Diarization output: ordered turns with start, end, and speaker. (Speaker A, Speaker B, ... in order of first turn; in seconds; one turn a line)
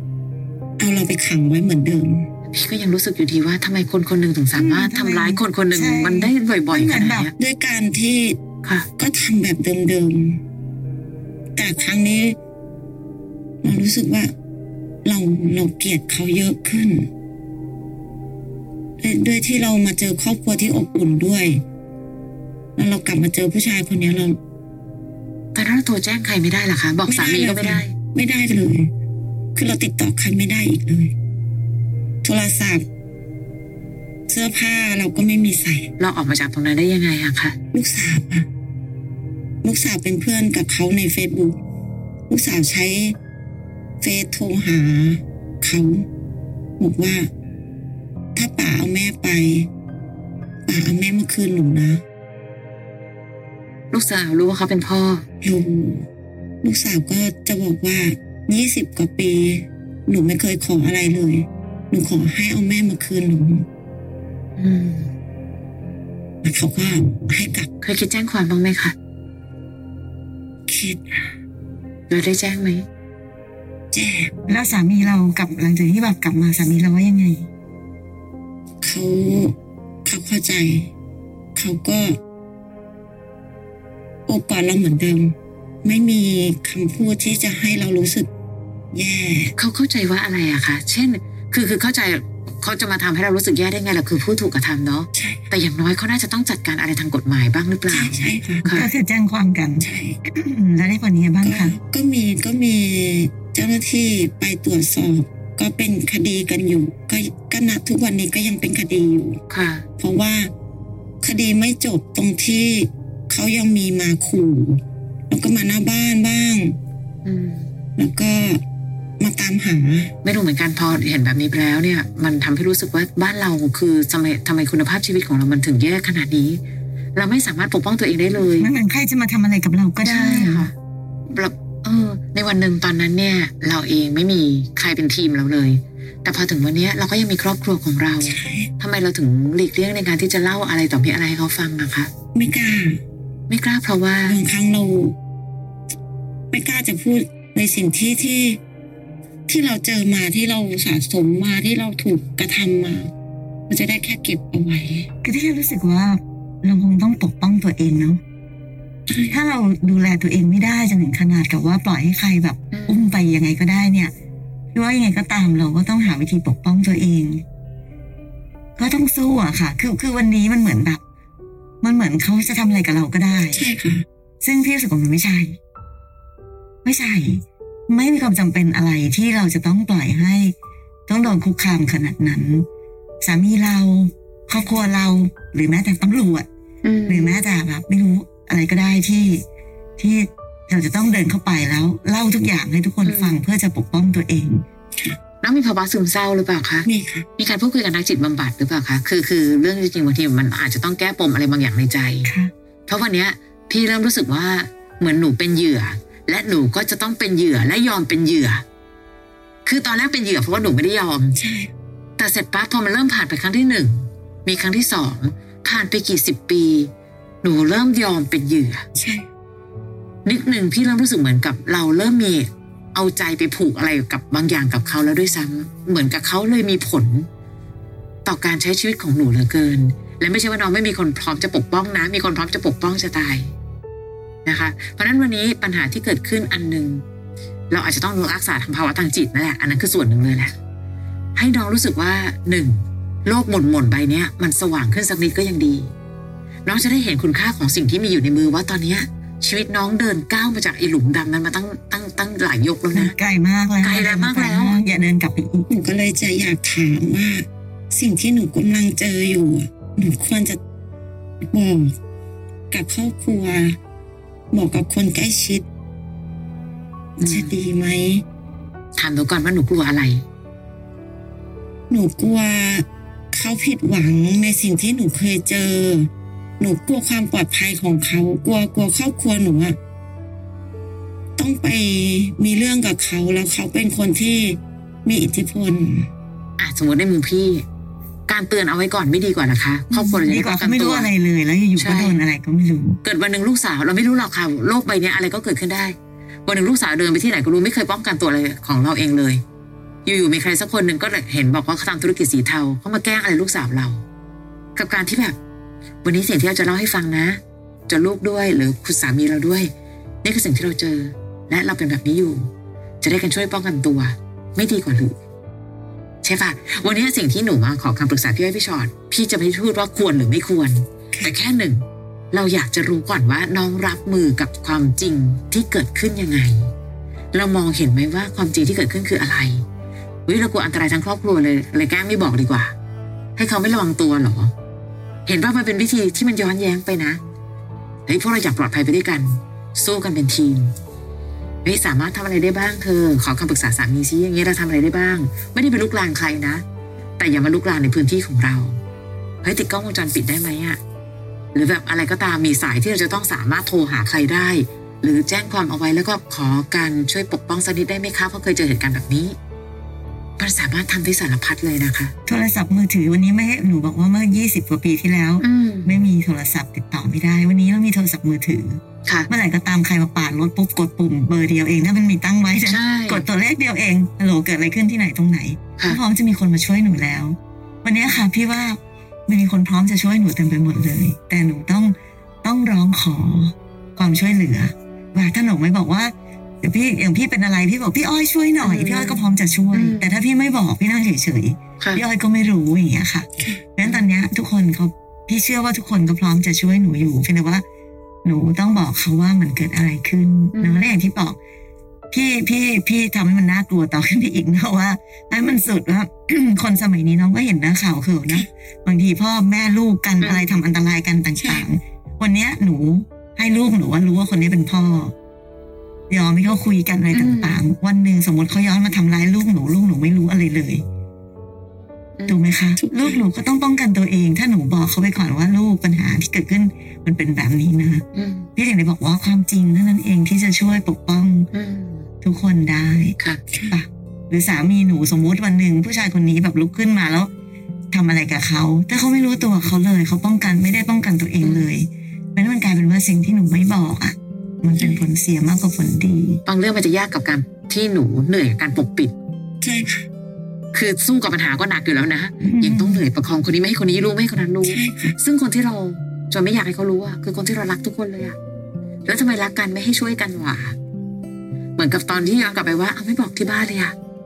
Speaker A: 0.8-2.3
Speaker B: 2.5-7.3
Speaker C: 4.5-7.3
Speaker A: 7.4-8.4
Speaker A: 9.0-10.4
Speaker A: 11.6-12.3
Speaker A: 13.6-14.3
Speaker A: 15.0-17.1
Speaker A: 19.0-21.6
Speaker A: 22.8-24.4
Speaker B: 25.5-27.9
Speaker A: 27.1-28.9
Speaker A: 29.5-31.1
Speaker A: 32.2-32.8
Speaker A: 34.3-35.9
Speaker B: 36.0-37.5
Speaker A: 37.7-38.5
Speaker A: 39.6-41.5
Speaker A: 42.3-43.1
Speaker A: 44.0-46.0
Speaker A: 46.8-47.3
Speaker A: 48.3-49.7
Speaker A: 50.7-52.0
Speaker B: 53.9-55.2
Speaker A: 55.4-56.1
Speaker A: 56.6-63.6
Speaker B: 64.6-65.1
Speaker A: 66.4-67.7
Speaker B: 67.8-68.9
Speaker A: 70.7-71.3
Speaker B: 72.1-72.8
Speaker A: 73.9-74.3
Speaker C: 74.5-77.5
Speaker A: 78.8-79.5
Speaker A: 80.0-80.9
Speaker A: 81.5-82.2
Speaker A: 84.3-88.3
Speaker A: 88.9-89.5
Speaker B: 89.6-98.9
Speaker A: 95.1-95.5
Speaker A: 97.9-98.7
Speaker C: 98.7-101.8
Speaker A: 99.8-100.2
Speaker A: 101.4-109.4
Speaker B: 109.5-109.8
Speaker A: 110.0-110.5
Speaker A: 111.2-116.8
Speaker B: 117.2-117.7
Speaker A: 118.0-118.6
Speaker A: 119.2-120.1
Speaker B: 120.2-126.6
Speaker B: 127.2-128.7
Speaker C: 128.6-130.7
Speaker B: 130.0-130.7
Speaker B: 131.3-142.1
Speaker A: 138.2-138.7
Speaker A: 142.3-143.0
Speaker B: 143.5-144.4
Speaker A: 144.2-145.1
Speaker A: 146.5-148.6
Speaker A: 149.5-153.1
Speaker A: 153.7-155.1
Speaker C: 155.2-158.2
Speaker A: 159.1-159.4
Speaker C: 159.3-164.1
Speaker B: 162.7-163.2
Speaker C: 164.7-167.4
Speaker C: 168.8-171.0
Speaker C: 171.8-173.6
Speaker A: 173.5-174.0
Speaker C: 174.4-175.6
Speaker C: 176.8-180.5
Speaker C: 181.1-182.7
Speaker C: 183.2-186.5
Speaker B: 186.8-187.4
Speaker C: 187.1-189.4
Speaker C: 190.0-194.6
Speaker B: 193.0-193.4
Speaker B: 195.4-202.3
Speaker A: 196.8-197.2
Speaker B: 202.9-208.6
Speaker B: 209.7-211.4
Speaker A: 211.3-211.7
Speaker B: 212.2-216.9
Speaker B: 217.4-218.8
Speaker A: 218.9-219.2
Speaker B: 220.2-227.3
Speaker B: 228.2-233.5
Speaker B: 234.4-237.0
Speaker B: 237.7-240.5
Speaker B: 241.3-245.9
Speaker B: 246.6-253.2
Speaker C: 252.9-255.7
Speaker B: 253.8-254.8
Speaker A: 255.7-260.6
Speaker A: 261.4-261.9
Speaker A: 262.7-263.8
Speaker A: 264.5-265.6
Speaker A: 267.2-268.2
Speaker B: 267.2-267.6
Speaker B: 268.9-270.2
Speaker A: 271.9-279.8
Speaker A: 281.4-286.1
Speaker B: 286.6-287.6
Speaker B: 288.3-291.1
Speaker A: 289.9-290.2
Speaker C: 290.2-293.0
Speaker B: 291.8-292.2
Speaker B: 293.0-295.9
Speaker B: 296.4-299.4
Speaker B: 300.1-304.0
Speaker B: 304.8-305.4
Speaker B: 306.0-309.7
Speaker B: 310.2-312.5
Speaker B: 313.0-315.1
Speaker B: 316.2-326.7
Speaker B: 327.3-329.6
Speaker B: 330.3-332.7
Speaker B: 333.4-334.5
Speaker B: 335.2-337.2
Speaker B: 338.1-340.7
Speaker B: 341.6-346.6
Speaker B: 347.2-348.8
Speaker B: 349.4-350.8
Speaker B: 351.5-359.4
Speaker B: 360.4-362.1
Speaker C: 362.2-397.6
Speaker B: 365.4-365.9
Speaker B: 372.6-373.3
Speaker B: 388.6-389.2
Speaker B: 389.7-390.1
Speaker A: 393.4-393.6
Speaker C: 398.2-401.4
Speaker B: 400.5-400.9
Speaker C: 402.1-415.1
Speaker B: 410.2-410.6
Speaker A: 411.4-411.7
Speaker C: 416.1-420.8
Speaker B: 417.1-417.6
Speaker B: 422.2-422.4
Speaker C: 422.3-428.0
Speaker A: 422.8-423.2
Speaker B: 428.1-428.5
Speaker C: 428.6-431.5
Speaker B: 431.5-432.1
Speaker C: 432.2-433.2
Speaker A: 433.5-433.8
Speaker C: 433.7-437.3
Speaker C: 437.9-446.4
Speaker B: 441.4-441.7
Speaker A: 444.8-445.0
Speaker B: 446.4-449.1
Speaker A: 449.6-450.1
Speaker B: 450.7-458.4
Speaker C: 452.4-453.0
Speaker A: 454.6-455.2
Speaker B: 459.0-460.8
Speaker B: 461.8-463.9